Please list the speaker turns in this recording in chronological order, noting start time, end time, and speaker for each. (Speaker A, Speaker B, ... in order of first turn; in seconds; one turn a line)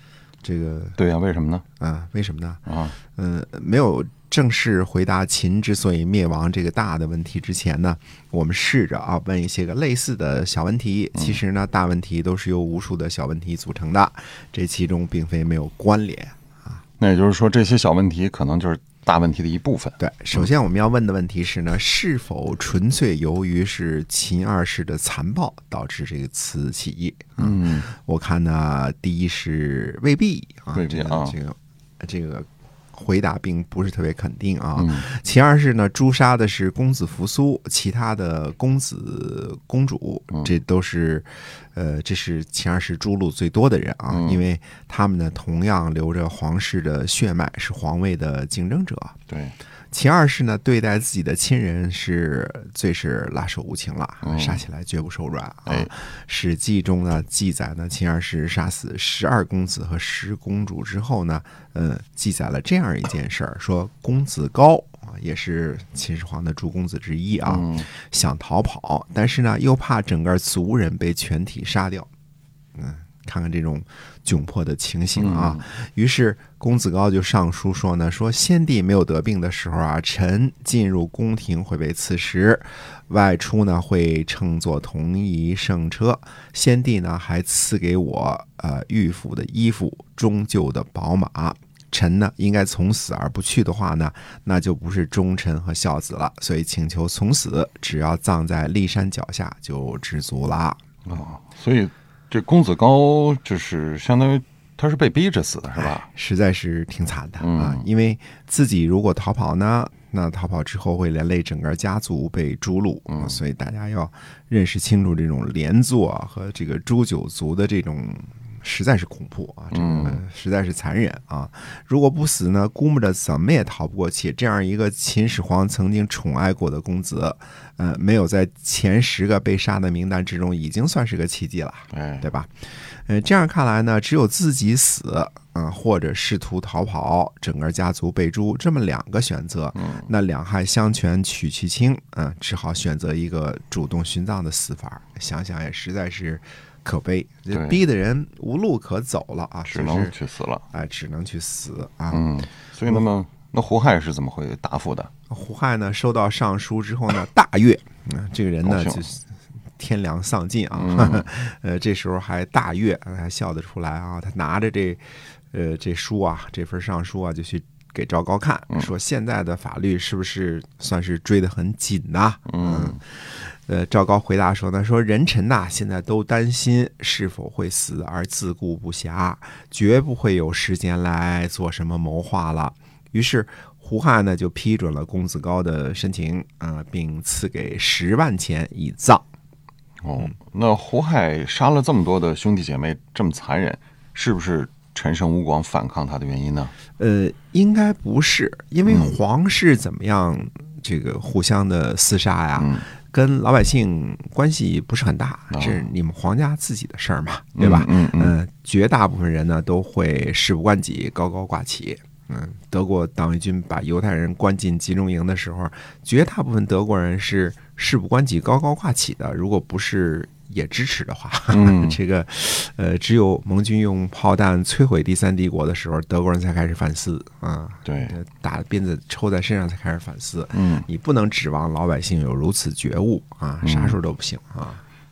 Speaker A: 0.4-1.0
Speaker B: 1.0-1.6
Speaker A: 1.8-16.8
Speaker B: 2.6-3.0
Speaker B: 11.1-11.4
Speaker B: 17.0-20.5
Speaker A: 20.0-49.2
Speaker B: 27.4-27.9
Speaker B: 30.7-31.4
Speaker B: 34.8-35.0
Speaker B: 44.1-44.4
Speaker B: 49.3-49.5
Speaker A: 49.9-72.1
Speaker B: 54.2-54.6
Speaker B: 55.6-55.9
Speaker B: 67.4-67.9
Speaker A: 72.8-100.8
Speaker B: 75.2-75.6
Speaker B: 101.0-106.1
Speaker A: 105.8-132.5
Speaker B: 107.4-107.8
Speaker B: 113.1-113.4
Speaker B: 119.7-120.2
Speaker B: 131.9-132.3
Speaker A: 133.1-150.1
Speaker B: 139.8-140.1
Speaker B: 147.5-147.8
Speaker B: 149.7-150.7
Speaker A: 150.7-152.3
Speaker B: 152.1-155.1
Speaker A: 155.3-189.2
Speaker B: 158.6-159.0
Speaker B: 160.7-161.3
Speaker B: 172.5-173.0
Speaker B: 190.0-196.7
Speaker A: 197.0-234.8
Speaker B: 198.9-199.1
Speaker B: 202.6-202.8
Speaker B: 205.5-205.8
Speaker B: 207.6-208.3
Speaker B: 221.5-222.0
Speaker B: 227.8-228.2
Speaker B: 230.5-230.8
Speaker B: 233.6-234.0